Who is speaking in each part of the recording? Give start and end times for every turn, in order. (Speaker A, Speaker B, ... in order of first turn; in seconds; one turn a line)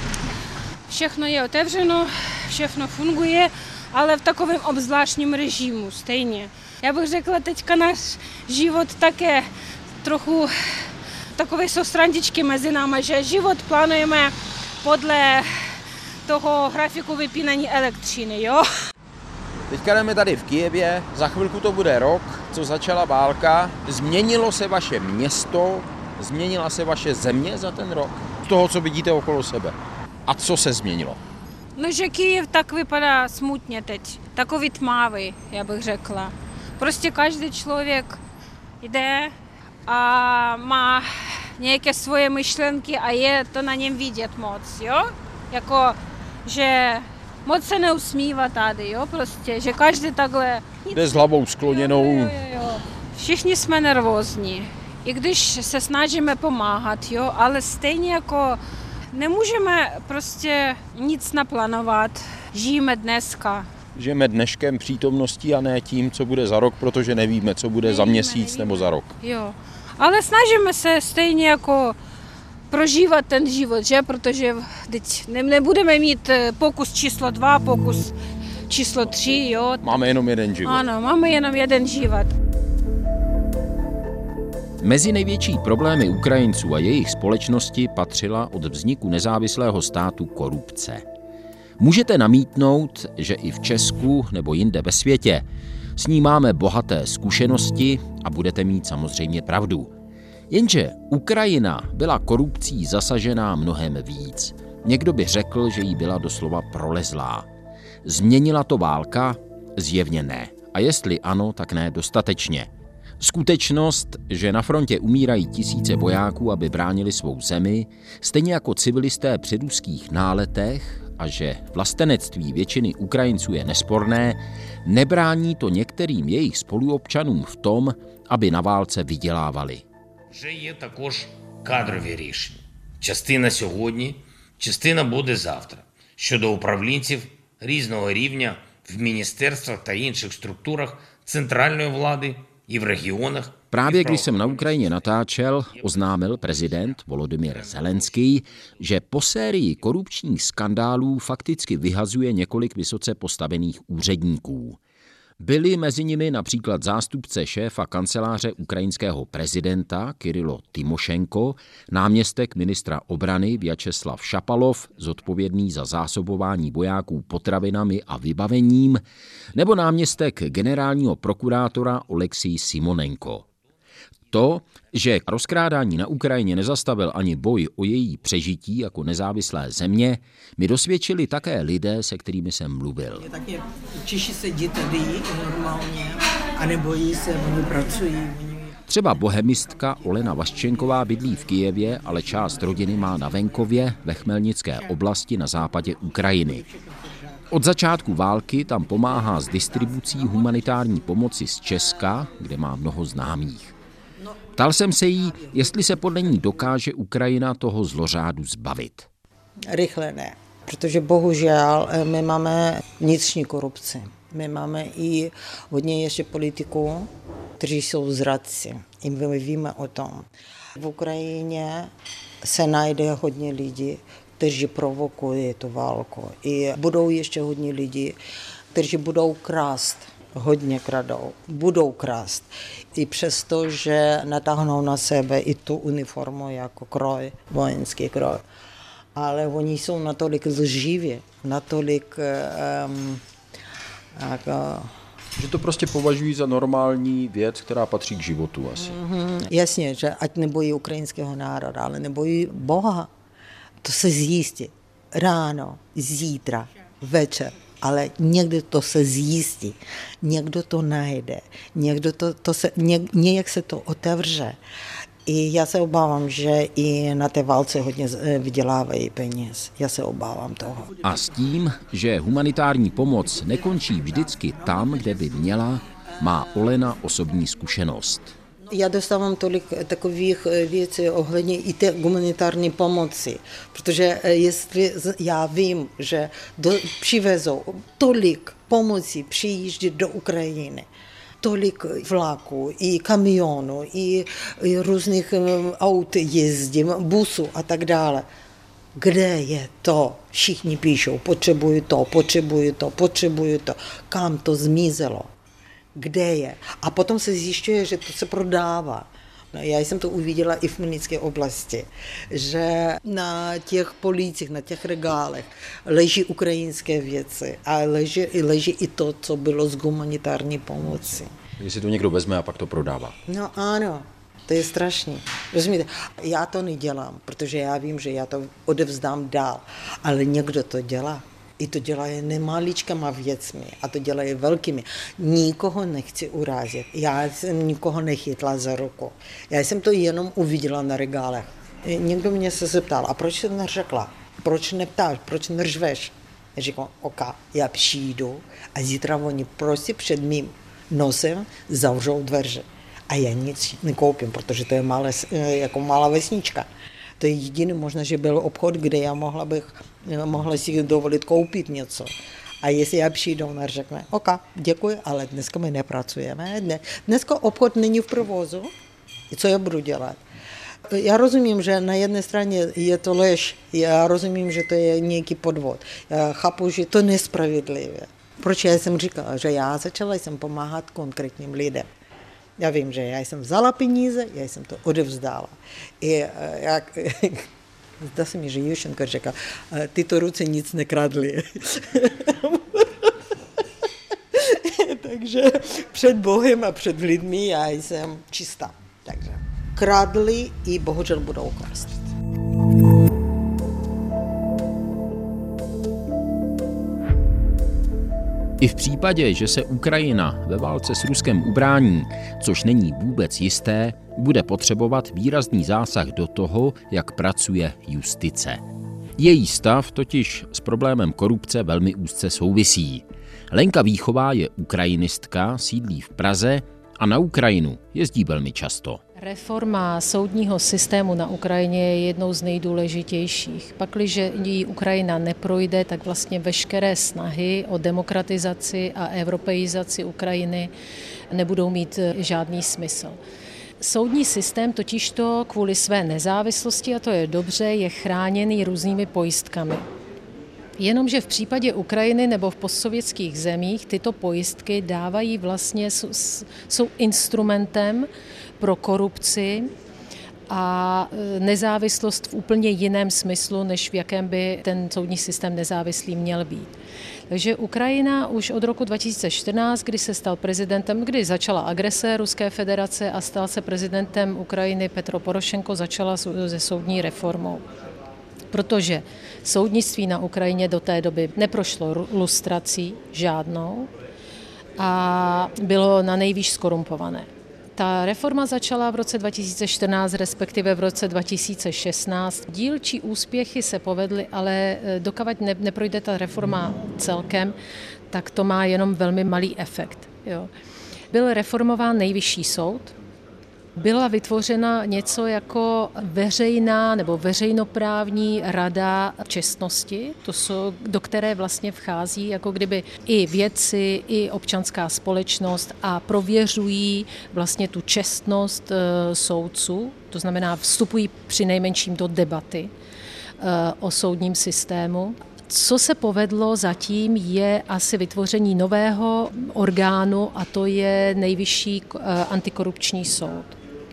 Speaker A: 0.9-9.5
Speaker A: 10.0-18.6
Speaker B: 19.7-31.2
Speaker A: 31.8-38.2
Speaker A: 38.8-39.3
Speaker A: 39.9-58.6
Speaker B: 50.9-52.3
Speaker A: 59.1-63.7
Speaker B: 64.0-69.1
Speaker A: 67.8-72.0
Speaker A: 72.7-78.1
Speaker A: 78.7-79.9
Speaker B: 79.8-80.8
Speaker A: 80.6-82.3
Speaker B: 84.8-91.0
Speaker B: 91.8-95.5
Speaker B: 96.0-99.9
Speaker B: 100.5-107.5
Speaker B: 108.0-112.7
Speaker B: 113.2-129.8
Speaker C: 130.3-145.0
Speaker B: 143.7-154.8
Speaker C: 147.5-148.1
Speaker B: 155.4-169.0
Speaker B: 169.5-173.5
Speaker B: 174.3-183.2
Speaker D: 183.2-188.7
Speaker B: 188.9-196.6
Speaker B: 197.5-203.7
Speaker B: 204.6-209.1
Speaker D: 209.7-228.2
Speaker D: 228.7-238.4
Speaker D: 239.1-243.2
Speaker D: 244.1-244.9
Speaker B: 245.3-248.9
Speaker D: 248.8-253.1
Speaker D: 253.8-264.6
Speaker D: 265.2-271.0
Speaker B: 271.0-278.3
Speaker D: 278.6-290.9
Speaker D: 291.4-298.3
Speaker D: 299.0-305.3
Speaker D: 305.9-321.3
Speaker B: 321.6-323.1
Speaker D: 323.2-356.7
Speaker D: 357.2-368.7
Speaker D: 369.3-370.2
Speaker D: 370.9-381.9
Speaker D: 382.6-387.5
Speaker D: 388.0-393.6
Speaker D: 394.3-402.1
Speaker B: 408.6-418.6
Speaker B: 419.2-429.0
Speaker E: 429.2-440.7
Speaker E: 441.3-443.2
Speaker E: 443.8-449.9
Speaker E: 450.8-458.1
Speaker E: 458.6-459.7
Speaker E: 460.5-466.7
Speaker E: 467.3-477.6
Speaker E: 478.5-483.9
Speaker E: 484.8-497.6
Speaker E: 498.1-500.5
Speaker E: 501.1-502.9
Speaker E: 503.8-522.7
Speaker E: 523.4-533.6